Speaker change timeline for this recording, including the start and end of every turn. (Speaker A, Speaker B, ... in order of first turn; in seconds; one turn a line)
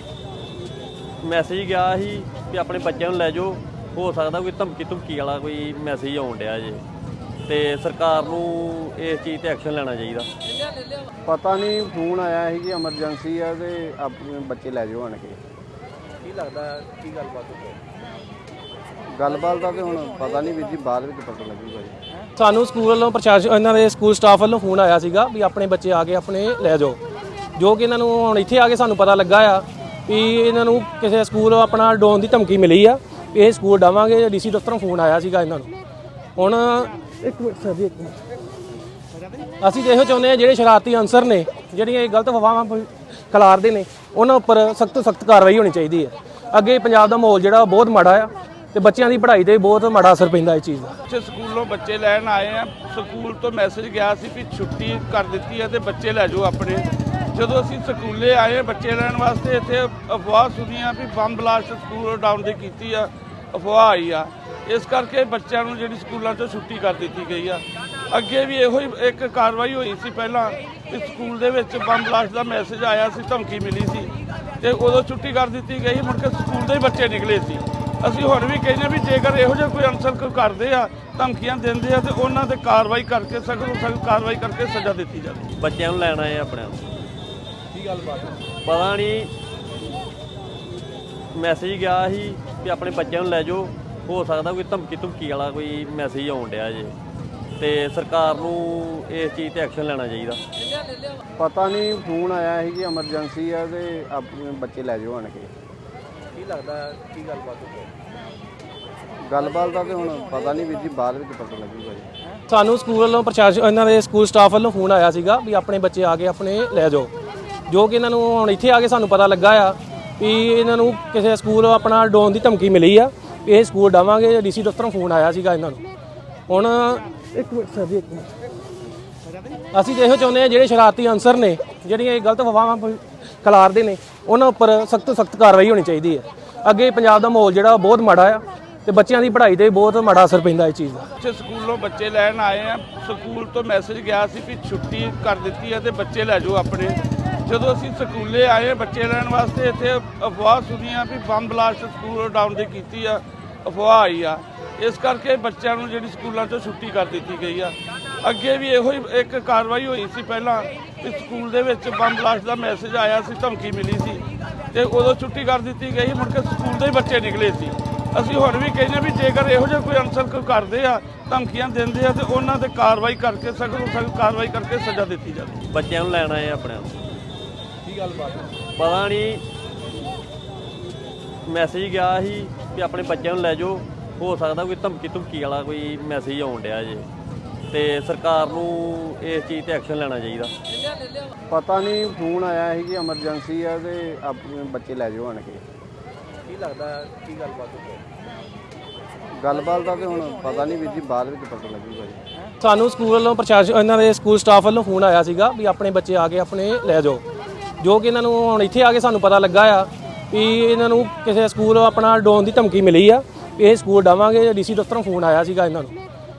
Speaker A: 1.2-6.8
Speaker A: 7.5-10.3
Speaker B: 11.3-15.4
Speaker C: 16.2-17.8
Speaker B: 19.1-21.9
Speaker D: 22.4-27.0
Speaker D: 27.6-35.7
Speaker D: 36.4-38.2
Speaker D: 39.6-51.0
Speaker E: 51.1-85.4
Speaker C: 67.1-67.4
Speaker C: 80.6-81.1
Speaker A: 85.5-86.8
Speaker C: 87.7-88.4
Speaker A: 88.6-89.3
Speaker A: 91.3-96.9
Speaker A: 97.6-100.4
Speaker B: 101.4-105.5
Speaker C: 106.3-107.9
Speaker B: 109.3-112.1
Speaker D: 112.5-117.1
Speaker D: 117.7-125.8
Speaker D: 126.5-128.3
Speaker D: 129.7-141.1
Speaker E: 141.2-175.5
Speaker C: 152.6-153.0
Speaker C: 170.8-171.2
Speaker A: 175.6-176.9
Speaker C: 177.9-178.5
Speaker A: 178.8-179.4
Speaker A: 181.5-187.1
Speaker A: 187.7-190.5
Speaker B: 191.5-195.6
Speaker C: 196.5-198.0
Speaker B: 199.4-202.2
Speaker D: 202.6-207.2
Speaker D: 207.8-215.9